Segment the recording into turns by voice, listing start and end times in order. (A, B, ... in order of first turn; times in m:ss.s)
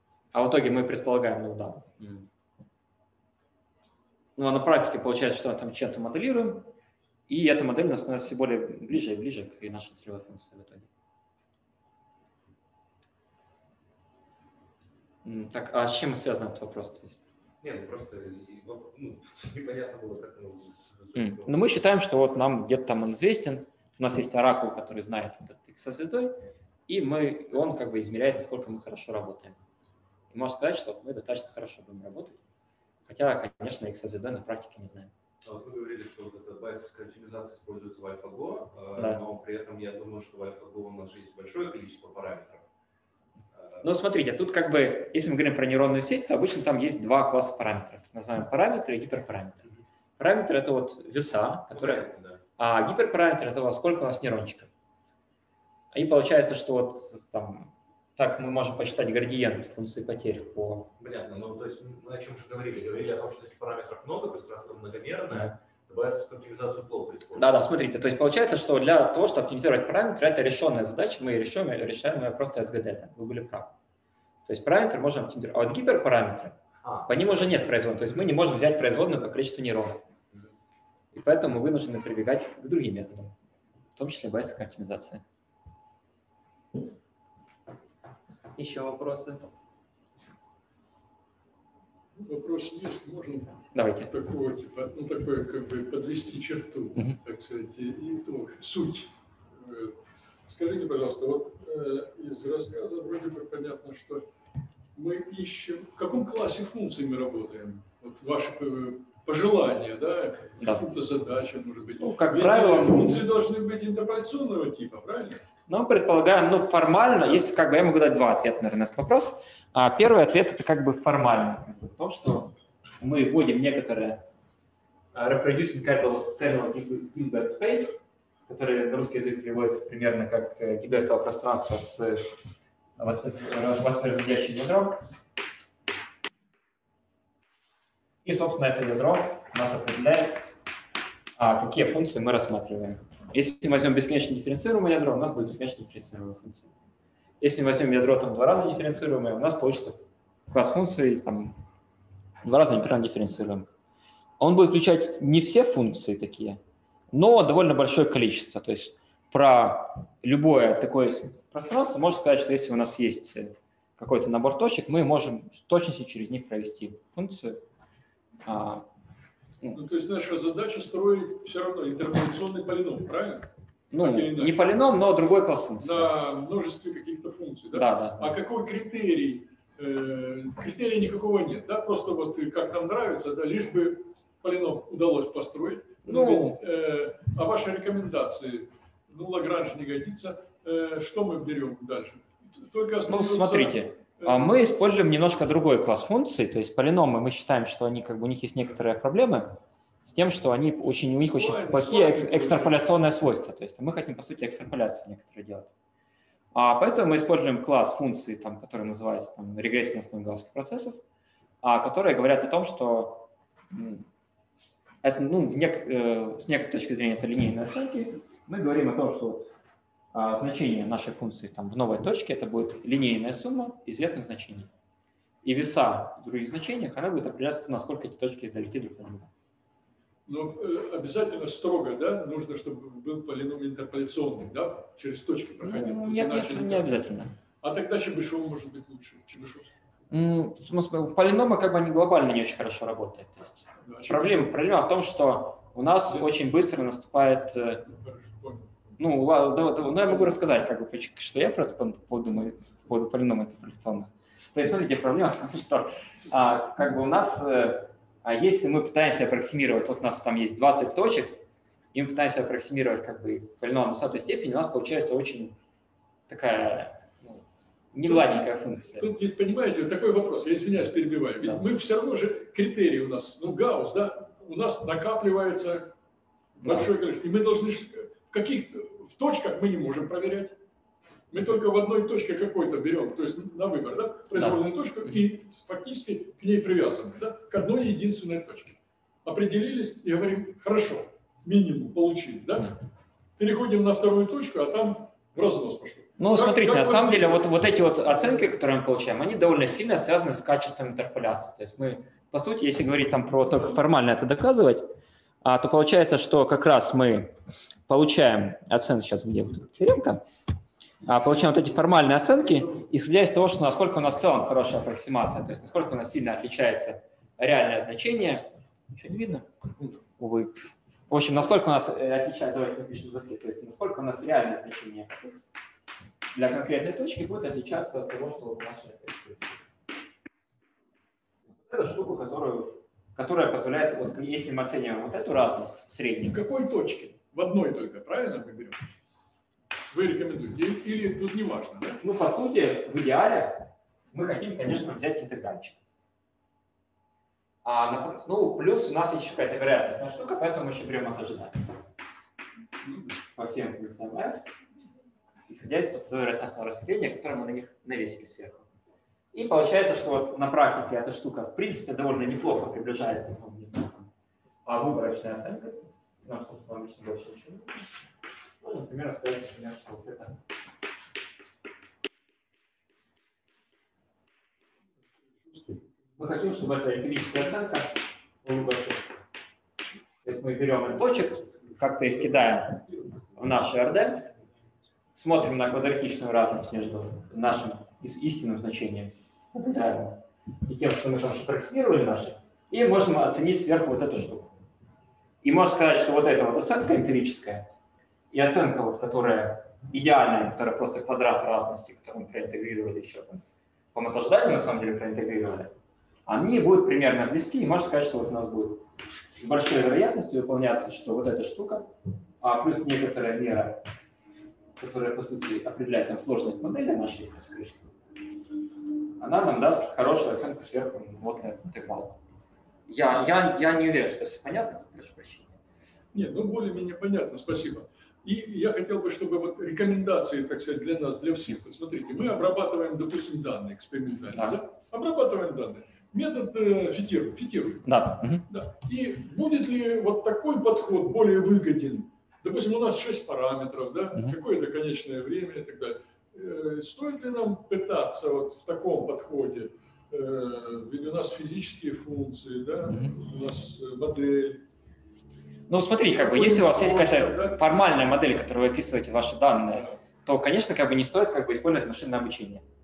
0:00.3-0:02.3 A
0:04.4-0:06.7 A
0:07.3-0:10.9 A
0:15.2-0:17.2 A
0:17.6-0:21.6 B
0:21.2-0:26.4 A
0:26.9-0:29.6 A
0:30.3-0:32.4 A
0:33.1-0:35.1 A
0:35.4-0:42.6 B
0:43.6-0:43.8 B
0:43.8-0:49.6 A
0:50.2-0:52.1 A
0:51.7-0:52.4 B
0:52.6-0:54.7 A
0:55.9-1:00.9 A
1:01.0-1:07.6 B
1:07.4-1:13.7 A
1:14.4-1:20.0 A
1:16.8-1:17.1 B
1:21.1-1:23.4 A
1:24.0-1:25.2 A
1:28.6-1:29.5 A
1:32.2-1:44.3 C
1:33.7-1:34.1 A
1:45.0-1:55.4 C
1:50.6-1:50.9 A
1:52.0-1:53.3 A
1:55.7-2:04.2 A
2:05.1-2:12.4 A
2:13.0-2:15.0 A
2:18.2-2:20.5 A
2:21.4-2:26.7 A
2:27.4-2:31.6 A
2:32.4-2:33.7 A
2:34.4-2:36.6 A
2:37.1-2:47.6 A
2:48.4-2:48.9 A
2:49.7-2:54.6 C
2:53.9-2:56.1 A
2:55.8-3:14.5 C
2:57.7-2:58.4 A
3:06.0-3:06.6 A
3:13.1-3:25.7 A
3:21.2-3:22.8 C
3:26.5-3:31.0 A
3:31.6-3:34.1 A
3:35.0-3:39.5 A
3:40.1-3:44.7 A
3:45.4-3:49.3 A
3:50.3-3:57.0 C
3:55.6-3:57.3 A
3:57.6-3:59.7 C
4:00.1-4:07.8 A
4:03.8-4:04.5 C
4:07.9-4:09.0 C
4:09.0-4:25.6 A
4:26.3-4:29.1 A
4:28.0-4:35.9 C
4:36.6-4:40.6 C
4:36.6-4:36.9 A
4:41.3-4:52.8 C
4:53.4-4:57.5 C
4:56.2-5:04.9 A
5:05.4-5:07.4 A
5:07.9-5:10.2 A
5:11.0-5:19.5 A
5:20.2-5:25.5 A
5:26.3-5:29.6 A
5:31.6-5:36.4 A
5:36.3-5:39.0 C
5:39.9-5:42.0 C
5:42.0-5:45.8 A
5:47.6-5:51.8 A
5:53.2-5:54.5 A
5:55.5-5:58.6 A
5:59.3-6:04.1 A
6:04.6-6:07.9 A
6:08.6-6:10.4 A
6:15.4-6:15.8 C
6:16.2-6:19.2 A
6:20.2-6:24.3 A
6:25.2-6:34.6 A
6:35.4-6:37.7 A
6:38.3-6:43.4 A
6:43.9-6:45.7 A
6:46.3-6:51.9 A
6:52.4-6:53.8 A
6:54.8-6:57.9 A
6:59.2-7:02.2 A
7:02.9-7:05.6 A
7:06.1-7:17.9 C
7:14.3-7:14.6 A
7:17.9-7:18.5 A
7:18.5-7:34.6 C
7:32.9-7:33.1 A
7:35.7-7:42.6 A
7:36.2-7:37.6 C